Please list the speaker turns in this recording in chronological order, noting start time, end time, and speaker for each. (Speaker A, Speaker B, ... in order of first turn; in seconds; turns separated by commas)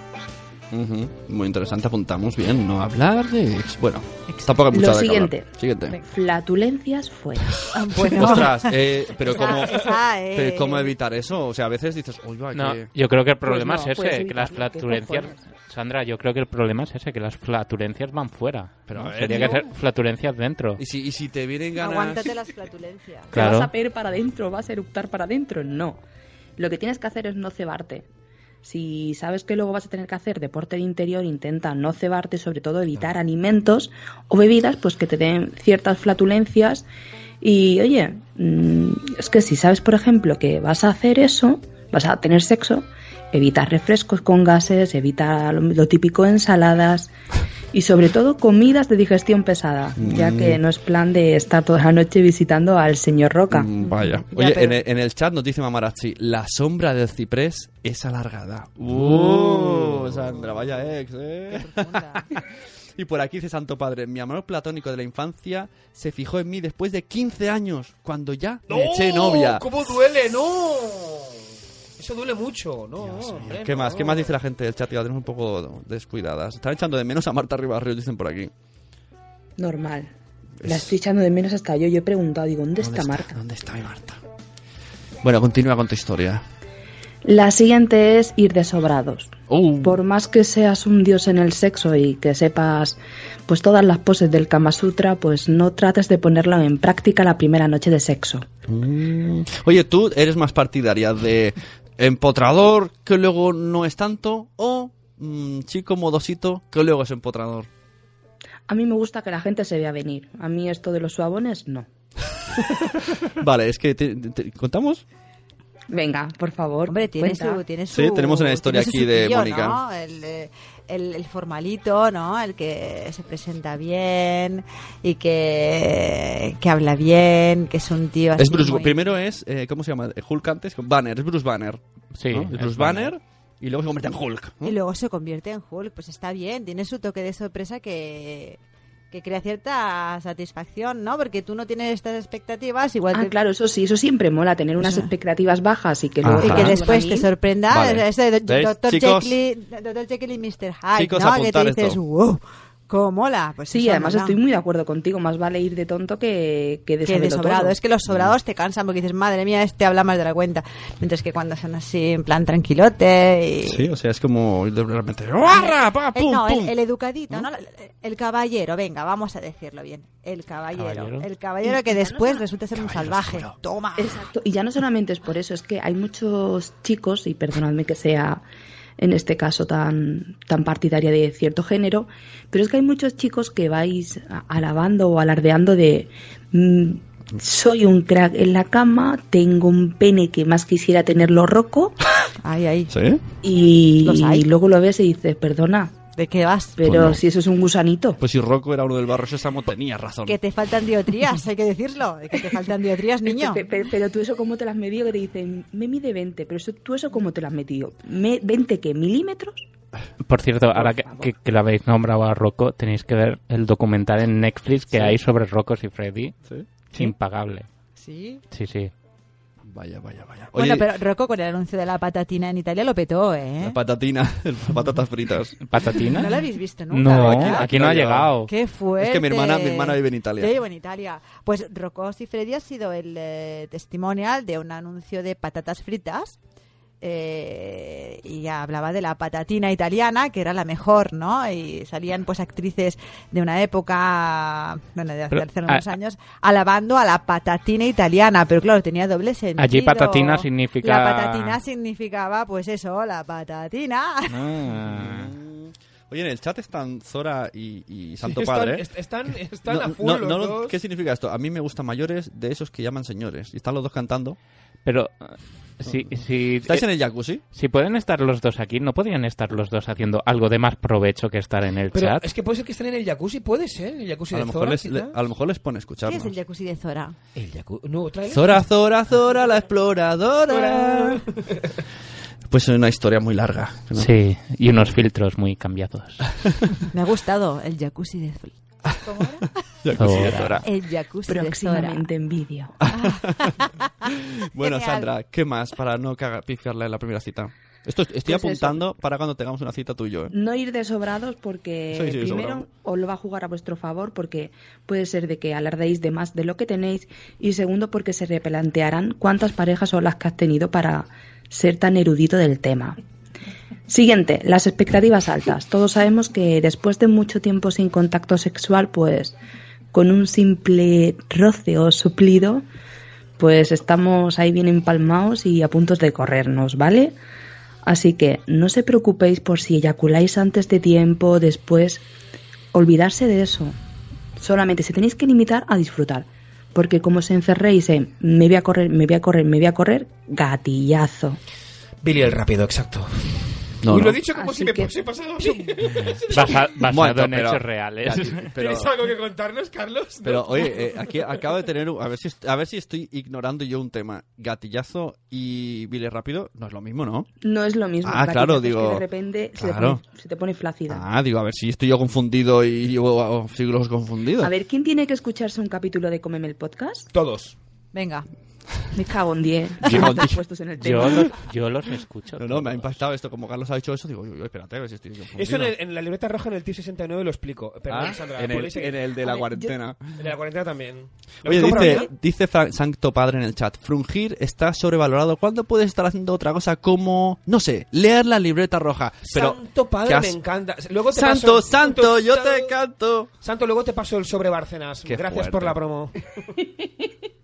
Speaker A: 0.7-6.0, Speaker B: 4.7-5.5, Speaker B: 6.0-7.6, Speaker C: 7.7-10.9, Speaker A: 8.0-12.9, Speaker B: 8.2-8.4, Speaker D: 12.5-20.8, Speaker B: 13.4-15.5, Speaker A: 18.9-19.6, Speaker A: 20.8-22.4, Speaker C: 21.8-23.3, Speaker B: 23.3-26.0, Speaker D: 23.3-23.7, Speaker B: 26.6-28.1, Speaker B: 28.6-36.9, Speaker B: 37.4-47.1, Speaker B: 47.7-53.7, Speaker A: 50.0-50.6, Speaker A: 53.5-62.4, Speaker C: 54.4-54.7, Speaker C: 61.5-62.2, Speaker A: 63.0-69.7, Speaker E: 68.7-71.4, Speaker E: 72.0-74.3, Speaker A: 73.0-78.5, Speaker B: 79.6-80.1, Speaker A: 80.6-80.9, Speaker B: 80.7-83.4, Speaker A: 82.8-84.2, Speaker A: 85.2-86.5, Speaker B: 87.2-98.5, Speaker A: 89.5-90.0, Speaker A: 98.7-107.7, Speaker B: 108.7-111.9, Speaker A: 113.3-115.0, Speaker B: 115.9-117.7, Speaker C: 116.9-129.0, Speaker A: 117.9-119.8, Speaker A: 128.4-134.8, Speaker D: 132.2-133.1, Speaker C: 134.6-138.6, Speaker C: 139.1-143.3, Speaker B: 143.1-147.3, Speaker C: 144.8-145.1, Speaker A: 146.2-146.9, Speaker C: 146.4-154.4, Speaker A: 147.7-149.4, Speaker A: 150.9-152.0, Speaker B: 153.7-157.8, Speaker C: 157.1-163.8, Speaker A: 158.1-158.4, Speaker A: 163.7-166.7, Speaker C: 165.5-174.2, Speaker D: 170.8-171.3, Speaker B: 171.6-172.5, Speaker A: 172.8-173.6, Speaker B: 174.0-178.4, Speaker B: 179.0-191.9, Speaker C: 192.4-192.9, Speaker A: 192.9-193.2, Speaker B: 193.4-196.0, Speaker C: 194.0-194.5, Speaker C: 196.1-196.8, Speaker B: 196.8-198.2, Speaker A: 196.8-197.2, Speaker A: 198.2-200.4, Speaker C: 200.3-203.6, Speaker B: 203.2-209.7, Speaker D: 210.2-216.3, Speaker B: 210.7-211.3, Speaker A: 214.9-215.2, Speaker D: 216.9-217.7, Speaker C: 218.0-218.4, Speaker D: 218.5-218.9, Speaker A: 219.7-220.9, Speaker C: 220.6-223.8, Speaker A: 223.6-225.6, Speaker D: 225.7-228.5, Speaker C: 226.0-227.7, Speaker A: 227.1-228.3, Speaker C: 228.5-236.4, Speaker A: 229.0-230.6, Speaker C: 237.0-254.4, Speaker D: 245.3-245.9, Speaker D: 249.6-251.6, Speaker D: 254.3-255.3, Speaker A: 254.7-258.8, Speaker E: 258.2-260.7, Speaker A: 259.7-264.4, Speaker D: 264.9-266.9, Speaker A: 266.6-267.4, Speaker D: 267.5-272.2, Speaker E: 271.9-275.1, Speaker A: 274.3-276.3, Speaker C: 276.1-277.2, Speaker E: 277.4-278.6, Speaker A: 278.3-281.2, Speaker E: 280.5-281.6, Speaker A: 282.5-284.1, Speaker D: 284.0-286.3, Speaker C: 286.9-289.5, Speaker A: 289.8-290.6, Speaker D: 290.0-290.6, Speaker C: 290.6-292.1, Speaker B: 291.3-292.8, Speaker A: 292.8-300.3, Speaker C: 292.9-293.9, Speaker C: 294.6-295.1, Speaker B: 298.2-298.9, Speaker B: 300.3-313.0, Speaker A: 301.9-302.6, Speaker B: 313.9-319.4, Speaker B: 319.9-322.6, Speaker B: 323.4-327.2, Speaker B: 327.9-332.1, Speaker B: 332.7-333.8, Speaker B: 334.4-341.4, Speaker E: 342.0-343.4, Speaker A: 343.8-344.2, Speaker E: 343.9-346.7, Speaker B: 344.4-344.9, Speaker D: 346.3-348.5, Speaker A: 346.9-348.9, Speaker E: 348.6-350.8, Speaker A: 350.2-357.3, Speaker B: 357.4-361.1, Speaker A: 358.1-359.0, Speaker A: 359.6-360.0, Speaker A: 360.9-364.5, Speaker B: 364.4-367.1, Speaker E: 367.1-367.6, Speaker C: 367.9-368.3, Speaker B: 368.9-371.4, Speaker A: 369.8-370.4, Speaker D: 370.8-372.9, Speaker A: 372.4-375.7, Speaker E: 375.4-379.0, Speaker A: 377.9-380.0, Speaker B: 379.1-379.8, Speaker E: 380.2-382.1, Speaker A: 381.4-390.4, Speaker B: 381.5-382.1, Speaker E: 389.3-392.7, Speaker A: 391.1-393.3, Speaker E: 393.4-396.2, Speaker A: 395.1-395.8